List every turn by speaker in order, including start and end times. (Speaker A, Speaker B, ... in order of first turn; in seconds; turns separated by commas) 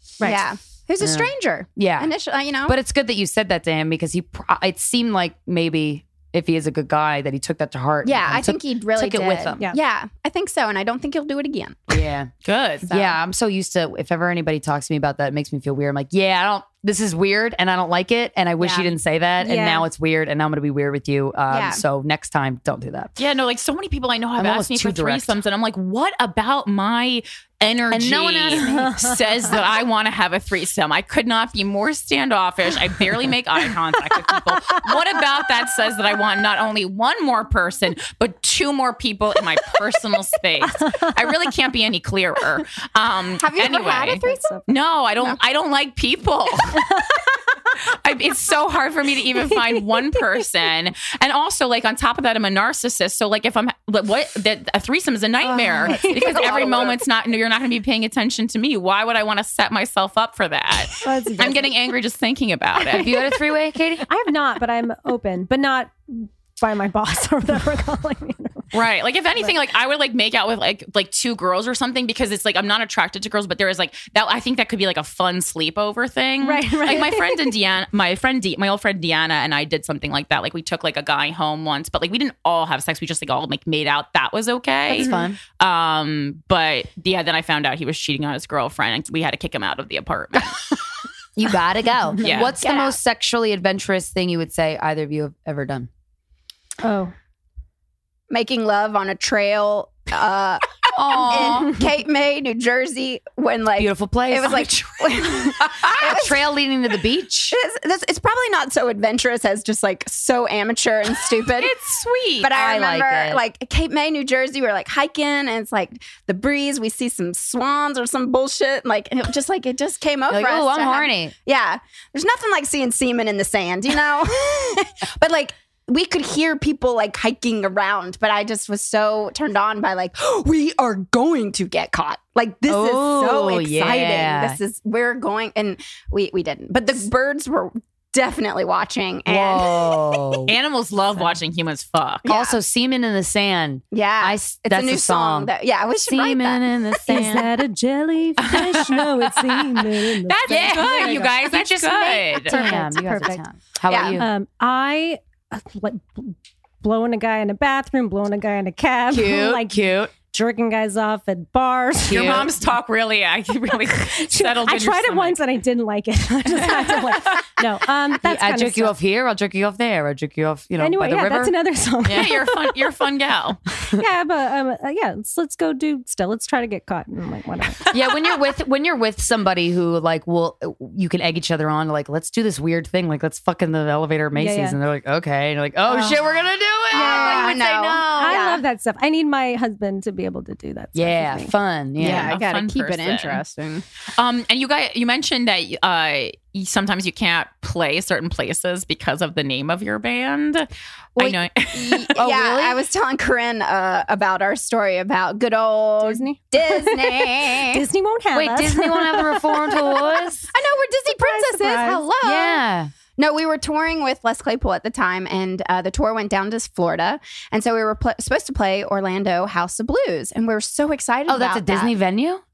Speaker A: 0.2-2.8, Speaker B: 1.0-2.1, Speaker B: 2.7-9.6, Speaker A: 8.0-12.1, Speaker B: 11.9-12.3, Speaker C: 12.4-12.9, Speaker A: 12.9-13.2, Speaker B: 12.9-23.1, Speaker A: 18.6-18.9, Speaker D: 19.4-19.9, Speaker A: 21.5-21.8, Speaker C: 23.2-46.9, Speaker B: 24.4-25.4, Speaker B: 27.9-28.8, Speaker D: 28.6-29.3, Speaker D: 34.1-35.0, Speaker D: 40.8-41.2, Speaker A: 43.4-44.6, Speaker D: 44.2-44.6, Speaker D: 46.8-47.3, Speaker C: 47.8-63.1, Speaker D: 49.5-50.5, Speaker A: 55.6-57.0, Speaker D: 55.8-56.4, Speaker D: 60.9-61.8, Speaker B: 62.9-64.1, Speaker D: 63.1-63.4, Speaker D: 64.0-68.7, Speaker C: 68.7-90.6, Speaker D: 76.4-77.5, Speaker B: 84.9-85.4, Speaker A: 85.0-85.3, Speaker B: 91.4-95.9, Speaker C: 92.2-92.6, Speaker A: 92.5-93.0, Speaker D: 96.8-97.1, Speaker A: 98.3-106.5, Speaker B: 101.0-101.8, Speaker B: 103.8-104.7, Speaker B: 106.0-107.6, Speaker A: 107.5-111.8, Speaker C: 111.6-112.5, Speaker A: 112.4-140.4, Speaker B: 112.5-113.4, Speaker B: 120.3-121.3, Speaker B: 132.7-134.6, Speaker B: 139.3-140.5, Speaker C: 140.5-142.3, Speaker A: 142.2-142.6, Speaker B: 142.3-145.5, Speaker A: 143.9-146.7, Speaker B: 146.1-147.5, Speaker D: 147.1-151.4, Speaker C: 150.2-152.7, Speaker B: 150.5-154.3, Speaker D: 152.4-153.5, Speaker A: 153.9-154.2, Speaker D: 154.1-162.5, Speaker B: 159.1-160.1, Speaker B: 162.1-162.5, Speaker C: 162.1-165.4, Speaker D: 164.0-168.9, Speaker B: 168.2-171.6, Speaker D: 170.8-172.9, Speaker C: 172.1-173.6, Speaker D: 173.9-178.2, Speaker B: 177.9-188.3, Speaker D: 184.3-184.8, Speaker D: 185.9-186.2, Speaker A: 186.9-188.6, Speaker D: 186.9-191.6, Speaker B: 190.9-192.4, Speaker A: 192.0-193.8, Speaker C: 192.0-193.4, Speaker C: 194.2-202.2, Speaker A: 201.2-207.9, Speaker B: 202.2-202.8, Speaker D: 206.0-210.3, Speaker B: 208.3-210.4, Speaker A: 210.5-212.6, Speaker D: 211.1-212.1, Speaker B: 212.2-212.9, Speaker A: 213.2-221.9, Speaker B: 221.3-222.4